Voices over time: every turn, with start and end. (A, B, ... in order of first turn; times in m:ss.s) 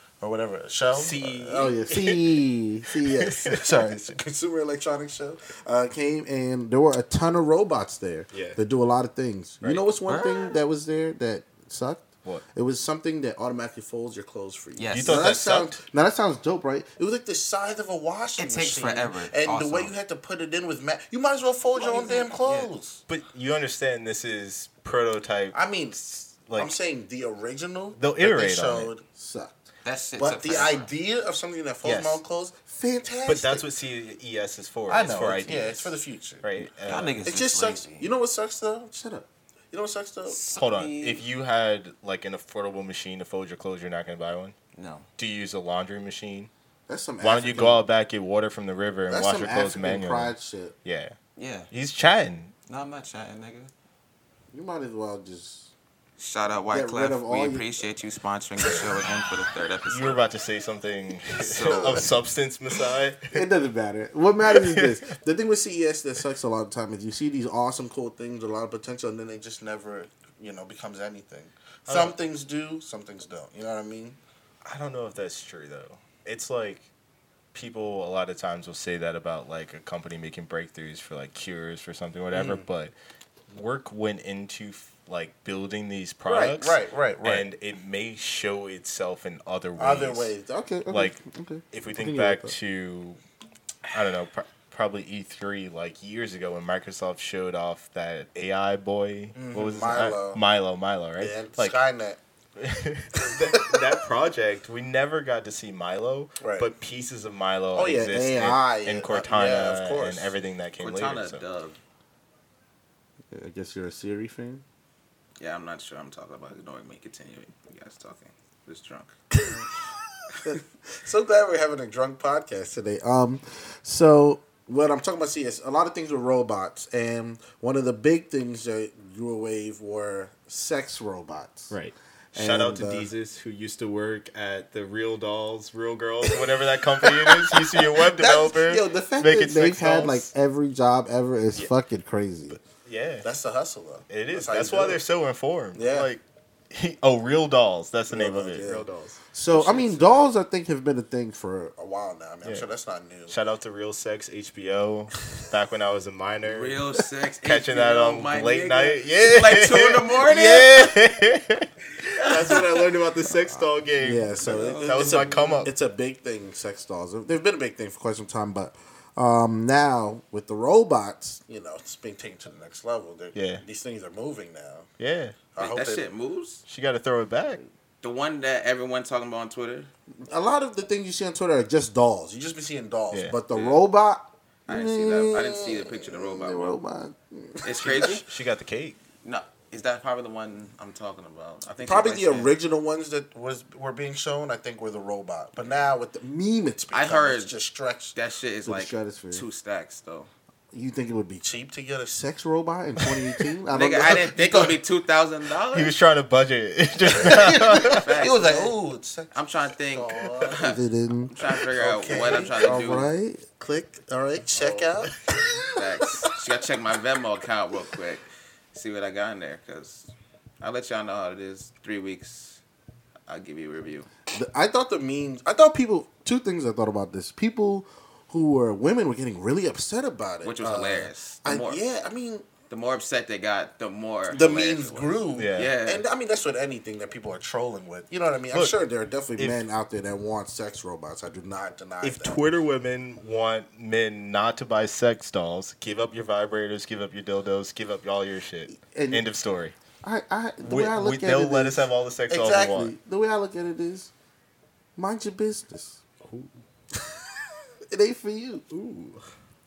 0:00.2-0:23.0 A
0:00.9-0:02.4 B
0:03.1-0:03.6 B
0:08.3-0:08.6 B
0:10.1-0:10.4 C
0:14.8-0:15.2 C
0:14.9-0:15.8 B
0:18.4-0:19.9 C
0:21.8-0:22.7 C
0:23.1-0:25.6 B
0:25.5-0:29.6 A
0:26.4-0:26.7 B
0:28.0-0:28.9 B
0:29.8-0:30.9 C
0:30.2-0:33.7 A
0:31.8-0:32.2 B
0:33.3-0:37.2 B
0:34.9-0:36.5 A
0:36.8-0:38.1 C
0:37.2-0:40.4 A
0:40.3-0:41.2 C
0:40.6-0:44.6 B
0:44.7-0:45.1 C
0:45.2-0:46.5 B
0:46.9-0:47.8 A
0:47.2-0:51.2 B
0:49.1-0:50.8 A
0:51.4-0:51.7 C
0:51.7-0:52.5 B
0:52.7-0:53.7 C
0:54.5-0:55.7 A
0:56.2-1:00.2 C
0:56.7-0:57.7 A
0:59.9-1:03.4 B
1:01.4-1:02.1 C
1:01.6-1:02.1 A
1:03.3-1:14.2 A
1:04.4-1:05.1 B
1:11.9-1:12.2 B
1:14.6-1:16.9 B
1:17.5-1:22.9 B
1:22.3-1:22.7 A
1:23.5-1:30.3 B
1:26.2-1:27.5 A
1:29.8-1:32.6 A
1:30.9-1:31.2 B
1:31.7-1:33.2 B
1:33.9-1:41.8 B
1:39.4-1:40.4 A
1:41.2-1:42.2 A
1:42.6-1:51.4 B
1:43.2-1:43.9 A
1:46.4-1:46.7 A
1:47.7-1:50.3 A
1:50.8-1:51.8 C
1:53.3-1:54.6 A
1:55.4-1:59.2 C
1:59.4-1:59.7 A
2:00.4-2:11.8 A
2:11.7-2:20.3 B
2:12.3-2:13.1 A
2:17.0-2:22.6 A
2:22.8-2:23.3 B
2:23.2-2:25.0 A
2:24.1-2:30.1 B
2:25.8-2:26.1 A
2:28.1-2:33.4 A
2:33.3-2:36.9 B
2:36.4-2:40.9 C
2:37.4-2:45.7 B
2:42.2-2:42.6 C
2:43.5-2:54.9 A
2:44.4-2:45.7 C
2:53.4-2:53.6 B
2:55.0-2:55.4 B
2:55.5-2:56.1 A
2:55.6-2:56.6 C
2:56.7-2:57.6 B
2:58.0-2:59.9 C
3:00.2-3:08.1 A
3:03.1-3:03.4 B
3:03.5-3:03.8 C
3:04.7-3:06.8 C
3:07.6-3:08.3 C
3:07.8-3:09.0 B
3:09.2-3:12.5 C
3:11.8-3:19.4 A
3:16.9-3:17.5 C
3:18.1-3:20.3 C
3:20.7-3:24.8 A
3:23.7-3:25.9 C
3:25.7-3:28.1 B
3:27.1-3:36.3 A
3:27.8-3:28.7 C
3:29.3-3:33.1 C
3:34.6-3:34.8 C
3:35.8-3:42.6 C
3:43.3-3:44.1 C
3:44.3-3:52.5 A
3:50.4-3:51.8 C
3:52.7-3:56.0 C
3:54.3-4:02.4 A
3:55.4-3:55.8 B
4:02.0-4:09.8 B
4:08.8-4:09.3 A
4:10.0-4:14.1 A
4:10.6-4:12.9 B
4:15.0-4:16.0 A
4:16.2-4:16.5 B
4:16.9-4:17.2 A
4:17.9-4:18.7 A
4:18.7-4:19.3 B